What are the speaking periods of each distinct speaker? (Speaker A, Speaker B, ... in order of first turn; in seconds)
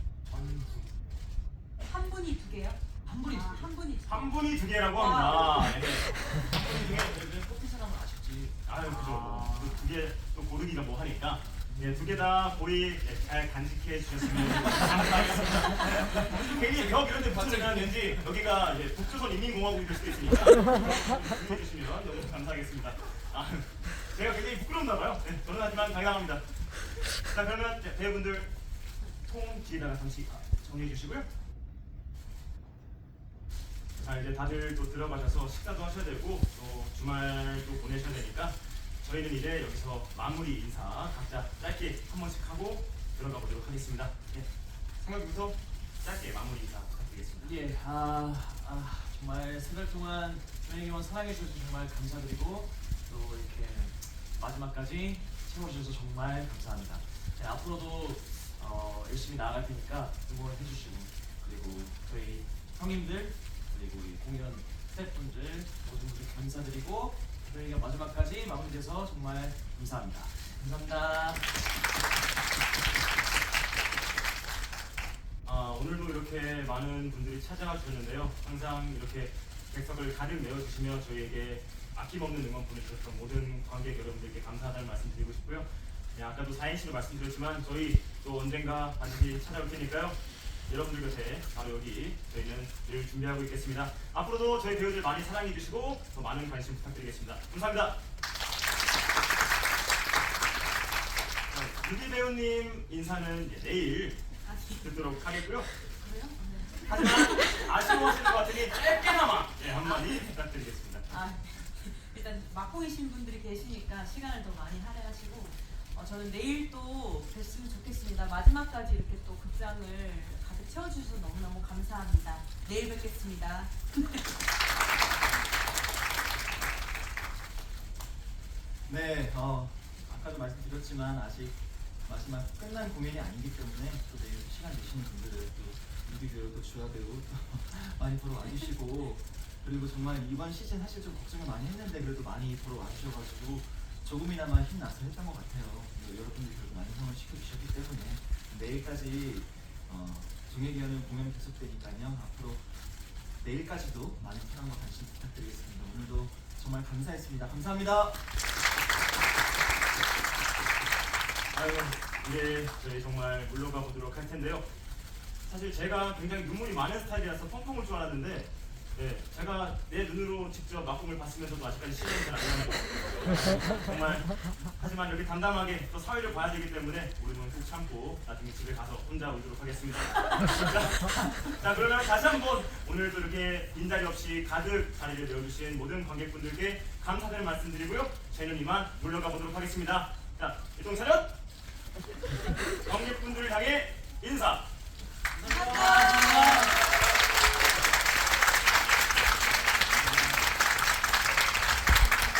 Speaker A: 0.3-0.9, 3.0-3.7, 8.8-9.9, 47.4-71.5, 195.4-196.7
Speaker B: 1.8-4.4, 4.9-5.8, 104.5-104.9, 105.8-107.9, 111.1-124.3, 195.4-196.9
Speaker C: 4.1-6.2, 8.6-28.5, 29.2-31.3, 34.0-44.2, 45.0-47.6, 75.5-98.0, 101.5-104.2, 104.8-105.7, 106.8-111.2, 161.5-164.7, 165.5-191.4, 192.8-194.7
Speaker D: 6.3-8.6, 11.7-12.1, 128.9-152.9, 153.4-158.2